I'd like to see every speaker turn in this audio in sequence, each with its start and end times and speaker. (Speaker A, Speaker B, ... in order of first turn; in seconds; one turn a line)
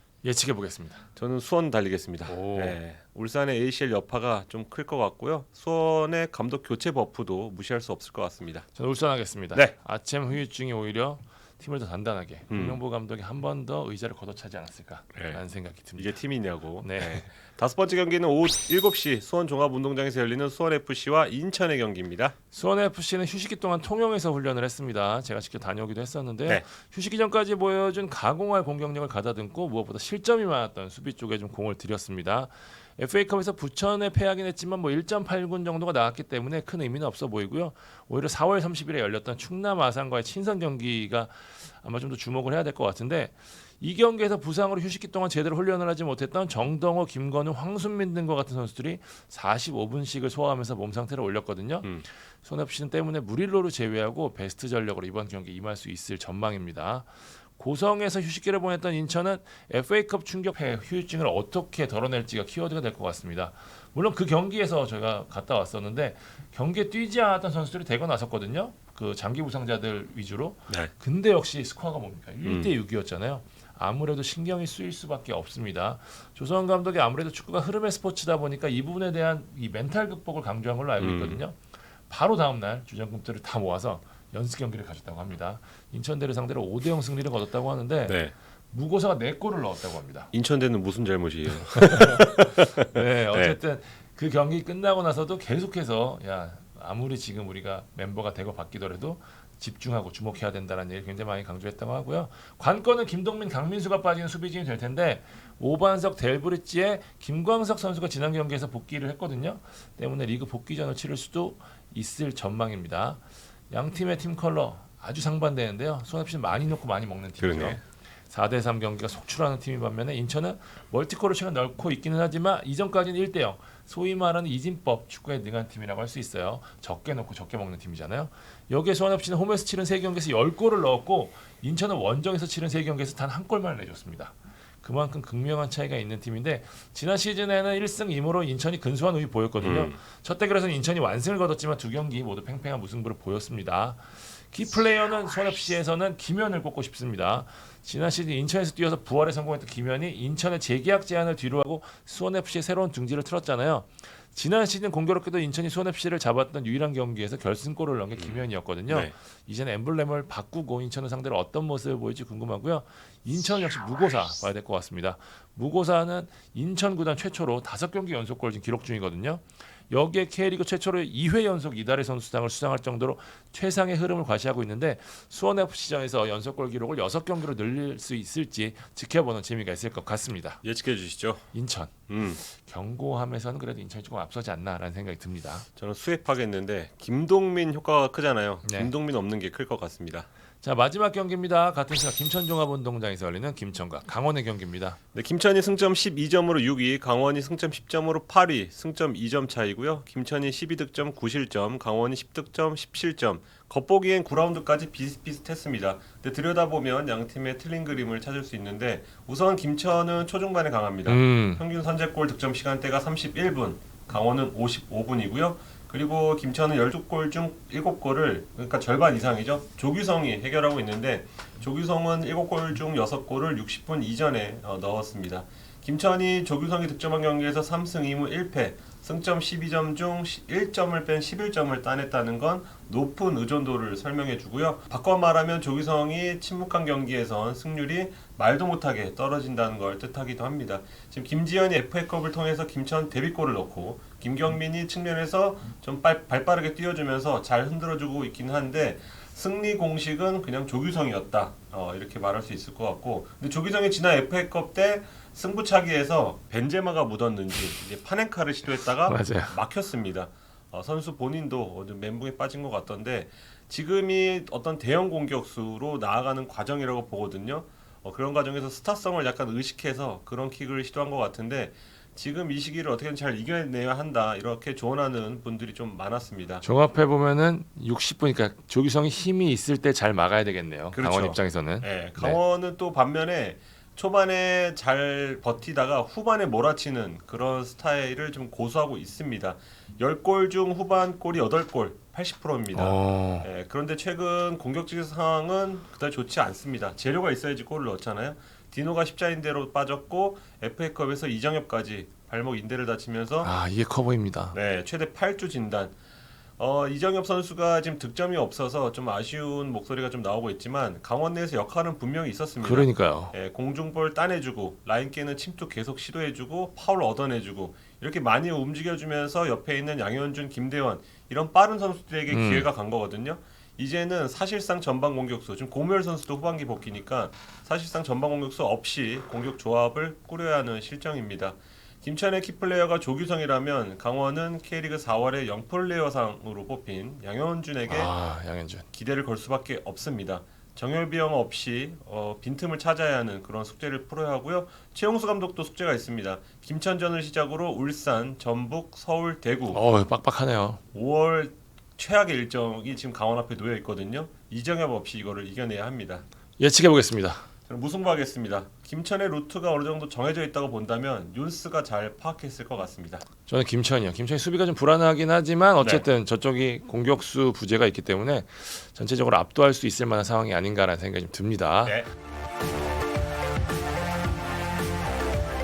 Speaker A: 0.2-1.1
Speaker B: 1.2-8.7
Speaker A: 2.3-2.8
Speaker A: 8.8-16.2
Speaker B: 12.5-12.8
Speaker B: 15.2-15.4
Speaker B: 15.9-22.4
Speaker A: 16.8-17.3
Speaker A: 22.5-90.3
Speaker B: 72.4-72.7
Speaker B: 81.0-81.4
Speaker B: 88.1-88.3
Speaker B: 90.3-93.6
Speaker A: 91.8-180.6
Speaker B: 117.4-117.8
Speaker B: 139.6-140.0
Speaker B: 158.2-159.1
Speaker B: 180.6-181.4
Speaker A: 181.5-185.7
Speaker B: 182.1-182.4
Speaker B: 185.8-190.3
Speaker A: 188.6-188.9
Speaker A: 190.6-195.0
Speaker B: 195.1-276.6
Speaker A: 211.1-211.6
Speaker A: 259.1-259.6
Speaker A: 276.6-282.4
Speaker B: 280.9-303.5
Speaker A: 292.7-293.5
Speaker A: 303.4-304.6
Speaker B: 304.5-305.9
Speaker B: 306.6-338.1
Speaker A: 312.6-313.3
Speaker A: 322.3-322.7
Speaker A: 337.9-338.9
Speaker B: 338.9-349.8
Speaker A: 349.7-350.8
Speaker B: 350.9-356.2
Speaker A: 356.6-357.5
Speaker B: 357.7-363.2
Speaker A: 363.5-372.0
Speaker B: 365.8-366.1
Speaker B: 371.8-372.1